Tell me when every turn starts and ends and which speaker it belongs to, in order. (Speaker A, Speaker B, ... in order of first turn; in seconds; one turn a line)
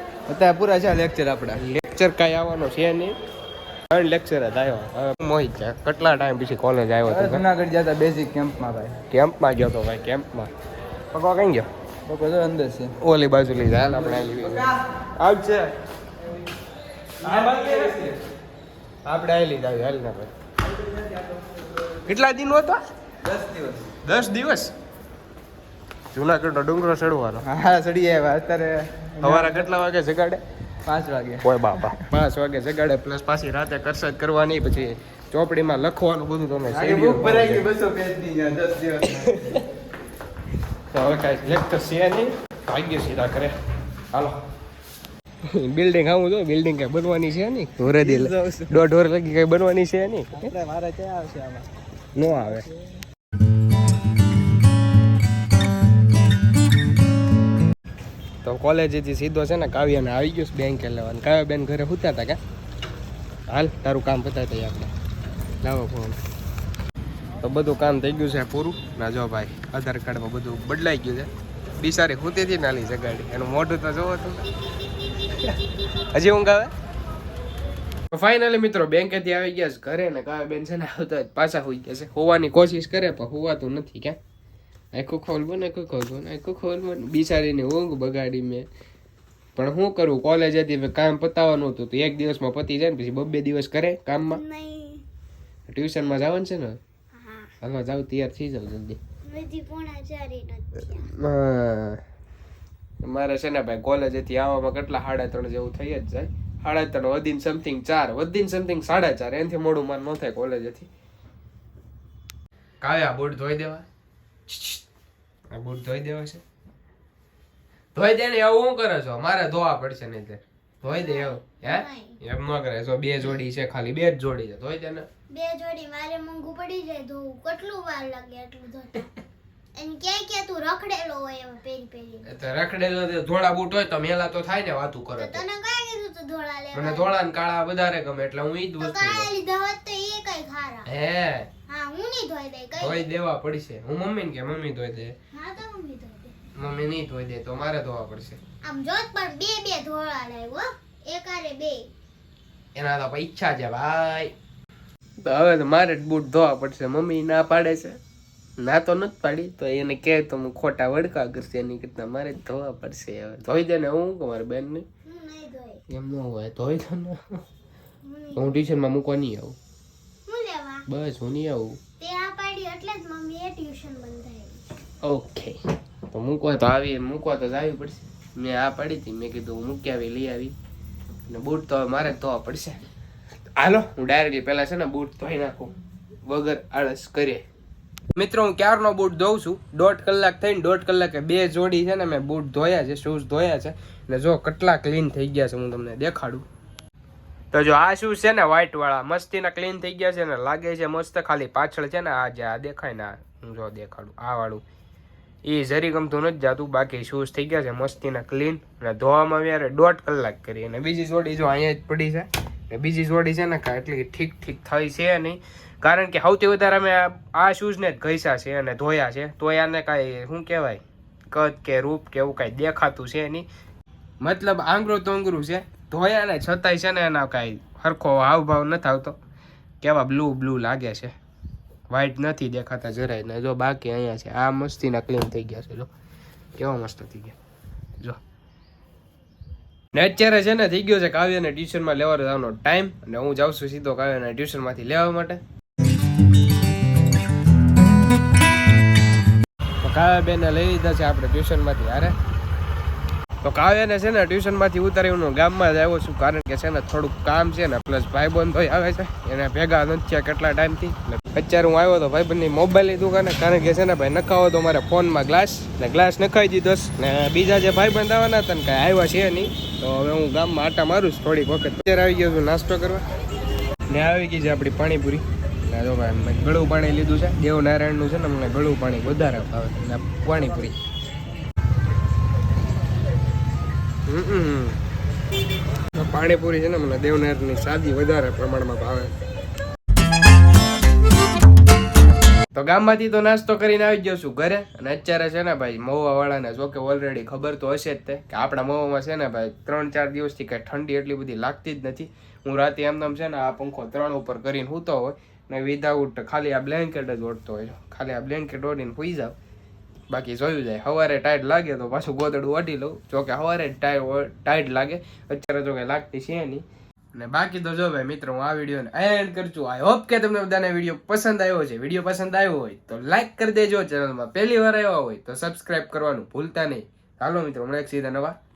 Speaker A: 0.3-3.1
Speaker A: 3.9-7.5
Speaker B: 7.1-9.0
Speaker A: 9.1-10.5
Speaker A: 11.1-11.7
Speaker B: 12.1-12.9
Speaker A: 13.0-15.7
Speaker B: 14.1-14.7
Speaker B: 17.2-18.1
Speaker A: 17.2-18.1
Speaker A: 19.1-20.3
Speaker A: 22.0-22.8
Speaker B: 23.2-23.9
Speaker A: 24.0-24.7
Speaker A: 26.1-27.5
Speaker B: 27.4-29.6
Speaker A: 29.2-30.4
Speaker B: 30.9-32.1
Speaker A: 31.4-37.7
Speaker B: 36.7-39.5
Speaker A: 39.1-39.7
Speaker A: 40.9-43.5
Speaker A: 44.1-44.4
Speaker A: 45.5-50.5
Speaker B: 48.0-48.7
Speaker B: 50.4-51.7
Speaker A: 52.1-52.7
Speaker A: 58.4-62.4
Speaker A: 63.5-64.9
Speaker A: 65.6-66.2
Speaker A: 67.4-74.5
Speaker A: 75.3-76.7
Speaker A: 78.1-84.2
Speaker A: 84.9-88.7
Speaker A: 89.6-94.4
Speaker C: 94.3-95.0
Speaker A: 95.7-96.8
Speaker C: 97.1-97.5
Speaker A: 97.6-99.0
Speaker C: 99.3-101.1
Speaker A: 100.9-102.0
Speaker A: 103.0-110.9
Speaker A: 112.8-113.8
Speaker A: 114.5-114.8
Speaker A: 115.5-116.4
Speaker A: 118.0-125.1
Speaker C: 120.9-122.2
Speaker C: 125.3-129.1
Speaker C: 129.8-132.3
Speaker A: 132.2-135.4
Speaker C: 135.2-137.2
Speaker A: 136.7-139.3
Speaker C: 138.8-140.9
Speaker A: 140.8-141.5
Speaker C: 141.7-143.1
Speaker A: 142.8-145.2
Speaker C: 145.3-146.3
Speaker A: 146.6-148.4
Speaker C: 148.6-151.9
Speaker A: 152.8-154.3
Speaker A: 155.2-158.0
Speaker A: 158.6-164.8
Speaker C: 165.1-165.8
Speaker A: 165.9-167.4
Speaker C: 168.0-168.7
Speaker A: 168.4-169.6
Speaker C: 170.3-170.8
Speaker A: 170.9-171.8
Speaker C: 172.0-174.6
Speaker A: 175.0-175.6
Speaker A: 176.1-180.6
Speaker A: 181.3-182.8
Speaker A: 183.6-185.7
Speaker A: 186.3-187.4
Speaker A: 188.2-196.5
Speaker A: 197.5-204.6
Speaker A: 205.4-223.5
Speaker A: 224.2-229.2
Speaker A: 229.8-231.1
Speaker A: 231.9-235.9
Speaker A: 236.6-237.4
Speaker A: 239.9-245.4
Speaker A: 249.8-252.2
Speaker A: 253.4-273.0
Speaker A: 273.9-280.8
Speaker A: 284.1-284.8
Speaker A: 285.9-289.1
Speaker A: 292.5-309.4
Speaker A: 310.1-328.4